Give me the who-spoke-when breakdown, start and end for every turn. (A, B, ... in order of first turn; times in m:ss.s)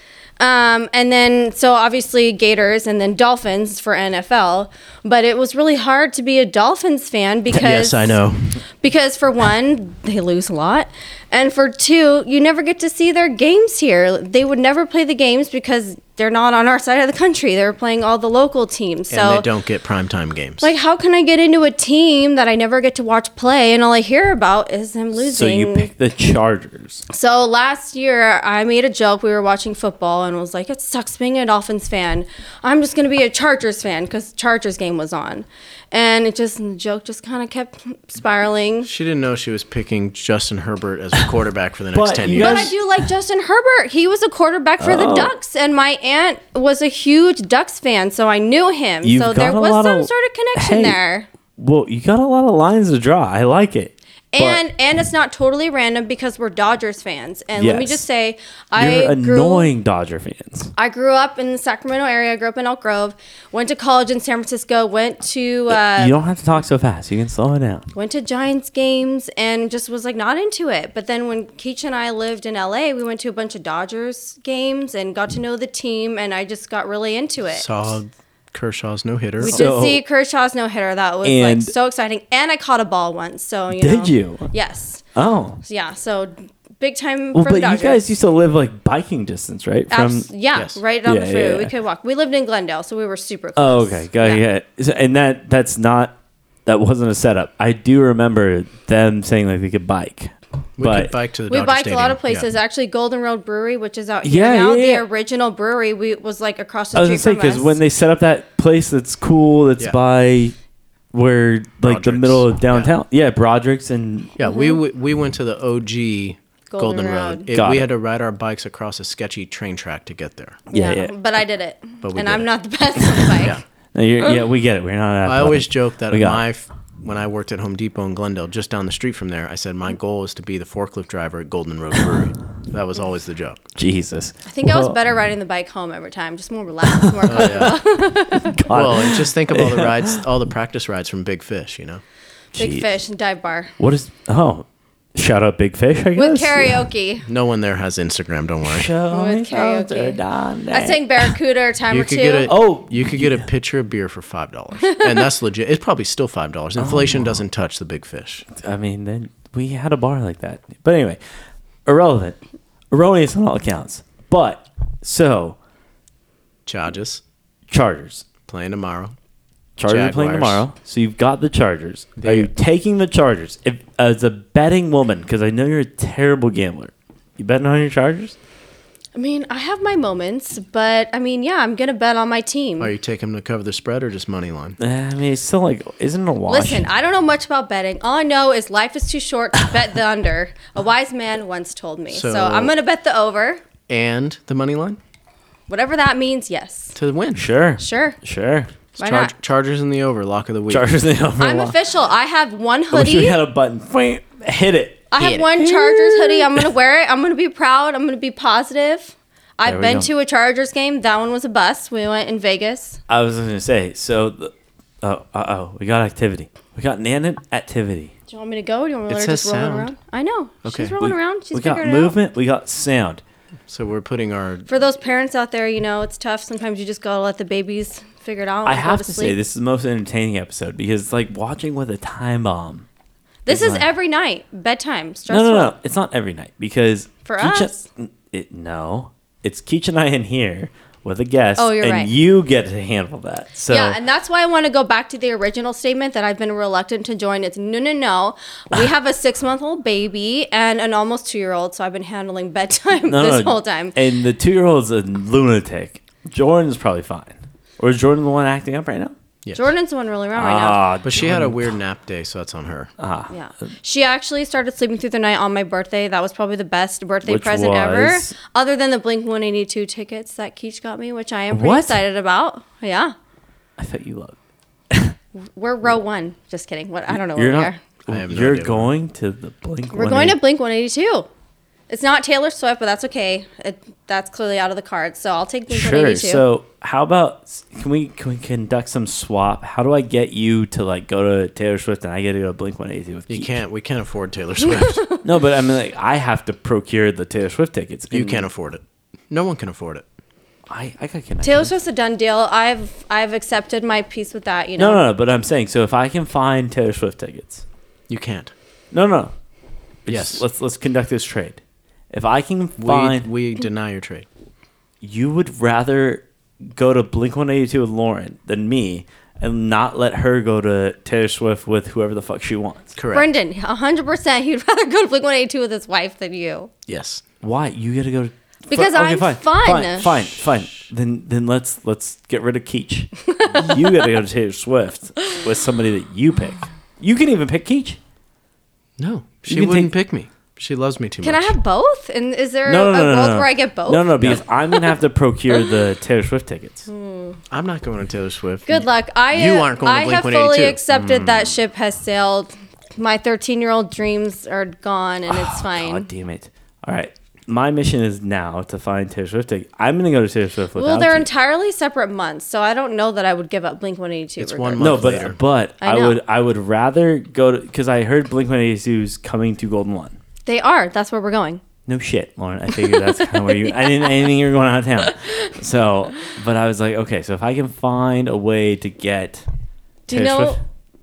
0:00.4-0:08.2 A
0:07.5-0:08.5 B
0:08.8-0:19.5 A
0:19.1-0:20.7 B
0:20.6-0:25.9 A
0:25.2-0:27.0 C
0:27.1-0:38.9 A
0:38.8-0:42.7 B
0:41.9-0:42.8 C
0:42.3-0:51.3 A
0:44.8-0:45.3 C
0:49.0-0:51.0 C
0:51.6-0:54.6 C
0:54.3-0:59.7 A
0:57.6-0:58.0 C
0:58.8-1:00.7 C
1:00.8-1:06.1 A
1:05.7-1:07.9 C
1:08.0-1:17.7 A
1:17.5-1:19.6 B
1:19.4-1:20.0 C
1:19.4-1:25.0 A
1:21.2-1:21.7 C
1:23.7-1:24.5 C
1:25.1-1:25.6 C
1:25.6-1:28.0 A
1:27.3-1:30.3 C
1:29.9-1:34.4 A
1:30.5-1:30.8 B
1:31.0-1:31.7 C
1:33.6-1:36.2 C
1:36.7-1:41.1 C
1:40.8-1:42.5 B
1:41.5-1:47.8 A
1:44.2-1:45.0 C
1:46.9-1:50.6 C
1:51.1-1:54.4 C
1:51.8-1:53.0 B
1:54.4-2:00.6 B
1:54.4-1:54.8 A
1:56.7-1:57.5 A
1:57.5-1:57.9 C
2:00.7-2:03.6 A
2:00.7-2:01.1 C
2:02.0-2:02.5 B
2:03.0-2:03.4 C
2:03.9-2:06.4 C
2:05.2-2:13.6 B
2:13.8-2:15.0 C
2:14.5-2:18.6 A
2:16.8-2:17.8 C
2:17.3-2:17.8 B
2:18.3-2:20.2 C
2:18.7-2:22.0 B
2:22.6-2:22.9 C
2:22.6-2:23.8 A
2:23.8-2:26.9 C
2:26.2-2:27.3 A
2:27.3-2:28.9 B
2:28.6-2:31.4 C
2:29.1-2:30.2 A
2:30.7-2:32.5 A
2:31.9-2:38.5 B
2:32.5-2:33.4 C
2:34.8-2:35.3 A
2:36.8-2:37.4 C
2:38.6-2:41.2 C
2:41.9-2:42.4 C
2:42.9-2:45.6 C
2:46.7-2:47.2 B
2:47.7-2:48.3 C
2:48.5-2:49.2 B
2:49.8-2:58.4 C
2:49.9-2:50.6 B
2:52.2-2:52.5 B
2:59.2-3:02.9 A
3:02.8-3:04.8 B
3:04.8-3:06.9 C
3:06.5-3:13.6 A
3:12.1-3:12.8 B
3:13.9-3:15.0 B
3:15.7-3:17.0 A
3:17.0-3:17.5 B
3:17.4-3:18.7 C
3:17.8-3:18.2 A
3:19.0-3:20.9 B
3:19.0-3:19.3 A
3:20.7-3:21.8 C
3:21.4-3:23.4 A
3:22.9-3:26.7 C
3:25.1-3:33.0 A
3:25.2-3:25.4 B
3:29.6-3:30.1 C
3:33.1-3:38.1 C
3:38.3-3:42.2 A
3:39.1-3:39.9 B
3:40.6-3:41.0 B
3:41.0-3:43.2 C
3:43.7-3:44.7 B
3:44.7-3:49.4 A
3:48.6-3:52.9 C
3:53.5-3:55.8 A
3:53.5-3:53.9 C
3:55.3-4:04.0 C
3:57.2-3:57.8 A
4:01.6-4:02.1 A
4:03.7-4:14.0 A
4:13.1-4:19.2 C
4:19.4-4:19.7 B
4:19.5-4:20.8 A
4:20.4-4:21.7 C
4:21.0-4:22.9 B
4:23.0-4:23.3 C
4:23.3-4:33.2 A
4:27.2-4:28.4 C
4:31.5-4:32.0 C
4:33.8-4:34.4 C
4:34.9-4:35.2 C
4:35.4-4:37.8 A
4:37.1-4:40.4 C
4:38.1-4:38.9 B
4:39.9-4:41.3 A
4:41.9-4:46.4 A
4:45.7-4:53.6 C
4:53.3-4:55.0 B
4:54.6-4:55.2 A
4:55.2-4:58.5 C
4:58.1-5:00.1 B
5:00.7-5:01.7 C
5:01.4-5:05.0 A
5:04.8-5:07.6 C
5:08.1-5:08.5 B
5:08.9-5:09.3 C
5:10.0-5:13.3 C
5:10.1-5:10.5 B
5:12.8-5:14.3 B
5:15.0-5:23.0 C
5:23.0-5:23.3 B
5:23.1-5:26.7 A
5:26.9-5:27.2 B
5:27.4-5:38.0 C
5:28.7-5:30.1 A
5:33.3-5:34.1 A
5:39.0-5:41.6 B
5:39.5-5:39.9 C
5:41.2-5:45.0 A
5:42.7-5:46.9 C
5:46.9-5:47.4 A
5:47.5-5:50.8 B
5:48.7-5:56.1 A
5:50.9-5:51.6 C
5:55.3-6:01.3 C
6:00.8-6:05.2 A
6:04.4-6:05.4 B
6:04.8-6:10.2 C
6:05.8-6:06.2 A
6:10.5-6:11.6 A
6:11.9-6:19.4 C
6:12.8-6:14.1 A
6:20.1-6:20.6 A
6:20.1-6:20.6 C